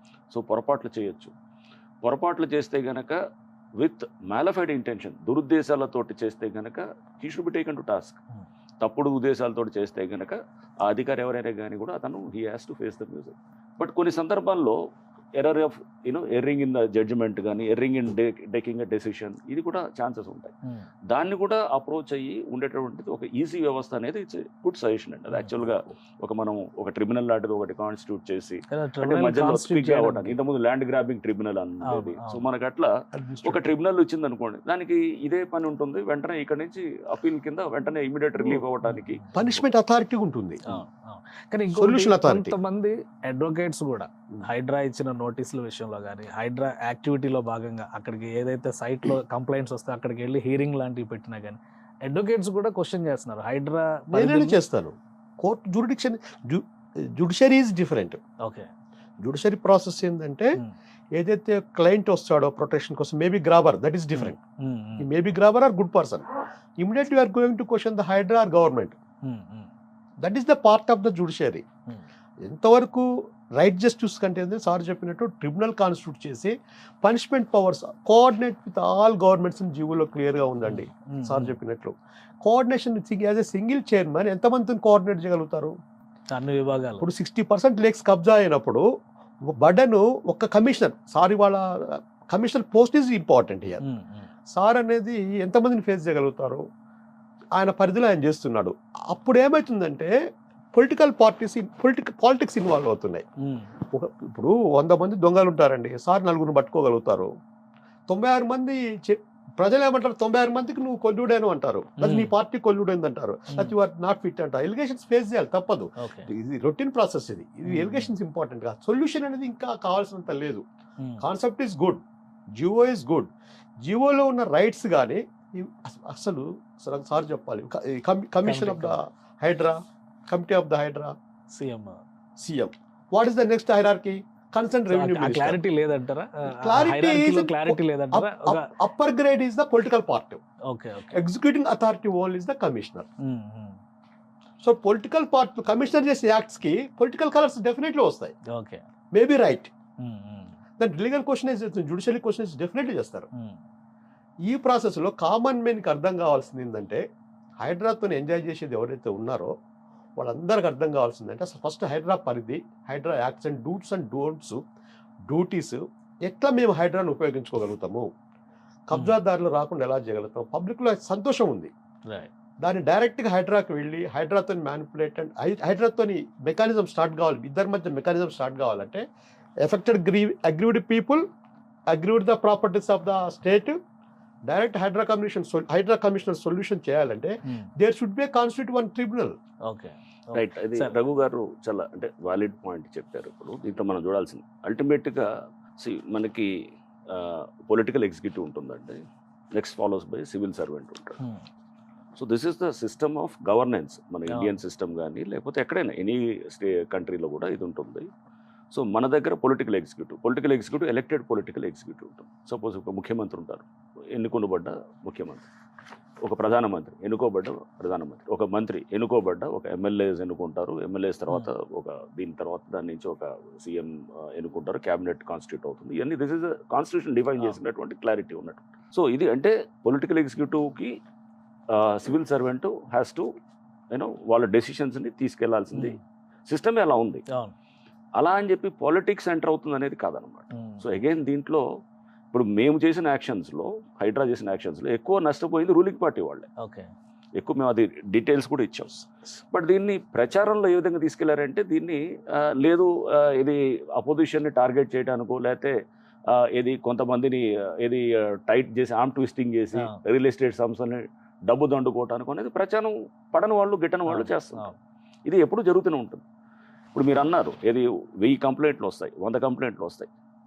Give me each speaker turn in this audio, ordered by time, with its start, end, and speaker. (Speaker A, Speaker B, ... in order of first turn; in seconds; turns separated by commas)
Speaker A: 0.3-1.3, Speaker A: 2.0-3.2, Speaker A: 3.8-8.2, Speaker A: 8.8-14.8, Speaker A: 15.4-20.5, Speaker A: 21.1-32.9, Speaker B: 25.3-25.6, Speaker B: 28.7-30.4, Speaker B: 31.9-32.5, Speaker C: 33.1-33.6, Speaker A: 33.4-39.6, Speaker B: 38.8-39.4, Speaker C: 39.3-40.6, Speaker B: 40.6-54.6, Speaker C: 41.7-42.5, Speaker C: 54.1-56.6, Speaker C: 57.1-58.2, Speaker B: 58.4-58.7, Speaker C: 59.2-60.5, Speaker C: 61.1-64.4, Speaker B: 64.1-65.1, Speaker C: 65.0-66.3, Speaker C: 66.8-69.0, Speaker B: 69.2-69.7, Speaker C: 70.2-71.6, Speaker C: 72.4-85.7, Speaker B: 80.6-81.5, Speaker B: 86.3-87.0, Speaker C: 87.0-88.8, Speaker C: 89.5-91.6, Speaker C: 92.3-93.8, Speaker B: 93.8-94.3, Speaker C: 94.5-96.6, Speaker C: 97.5-100.1, Speaker C: 100.7-103.2, Speaker B: 103.4-103.7, Speaker C: 103.9-107.3, Speaker C: 108.1-120.6, Speaker B: 112.0-112.3, Speaker B: 116.0-116.3, Speaker B: 117.6-118.1, Speaker C: 121.2-122.0, Speaker C: 122.6-123.3, Speaker C: 123.8-131.1, Speaker B: 128.4-129.0, Speaker B: 131.5-132.0, Speaker C: 132.4-135.6, Speaker B: 134.9-138.7, Speaker C: 136.4-140.4, Speaker B: 140.7-141.2, Speaker C: 141.1-143.1, Speaker B: 143.2-143.8, Speaker C: 144.6-148.3, Speaker B: 148.5-148.8, Speaker C: 149.1-149.7, Speaker B: 150.0-150.5, Speaker C: 150.8-153.3, Speaker C: 154.5-157.0, Speaker C: 157.6-159.5, Speaker C: 160.2-164.6, Speaker C: 165.3-168.1, Speaker C: 168.9-171.7, Speaker B: 168.9-169.2, Speaker C: 172.6-179.0, Speaker C: 179.6-181.2, Speaker C: 181.9-183.8, Speaker C: 184.5-189.3, Speaker B: 189.7-191.0, Speaker A: 190.3-196.5, Speaker A: 197.1-199.0, Speaker A: 199.5-201.2, Speaker B: 201.2-201.4, Speaker A: 202.2-208.1, Speaker B: 204.3-204.6, Speaker A: 208.7-215.4, Speaker A: 216.2-231.0, Speaker A: 231.7-233.3, Speaker A: 233.9-237.2, Speaker B: 235.7-236.0, Speaker B: 237.3-237.5, Speaker A: 238.2-241.6, Speaker B: 240.5-240.8, Speaker A: 242.3-246.5, Speaker B: 246.6-246.9, Speaker A: 247.4-255.8, Speaker A: 256.3-264.7, Speaker B: 264.1-264.8, Speaker A: 265.3-266.2, Speaker A: 266.9-270.1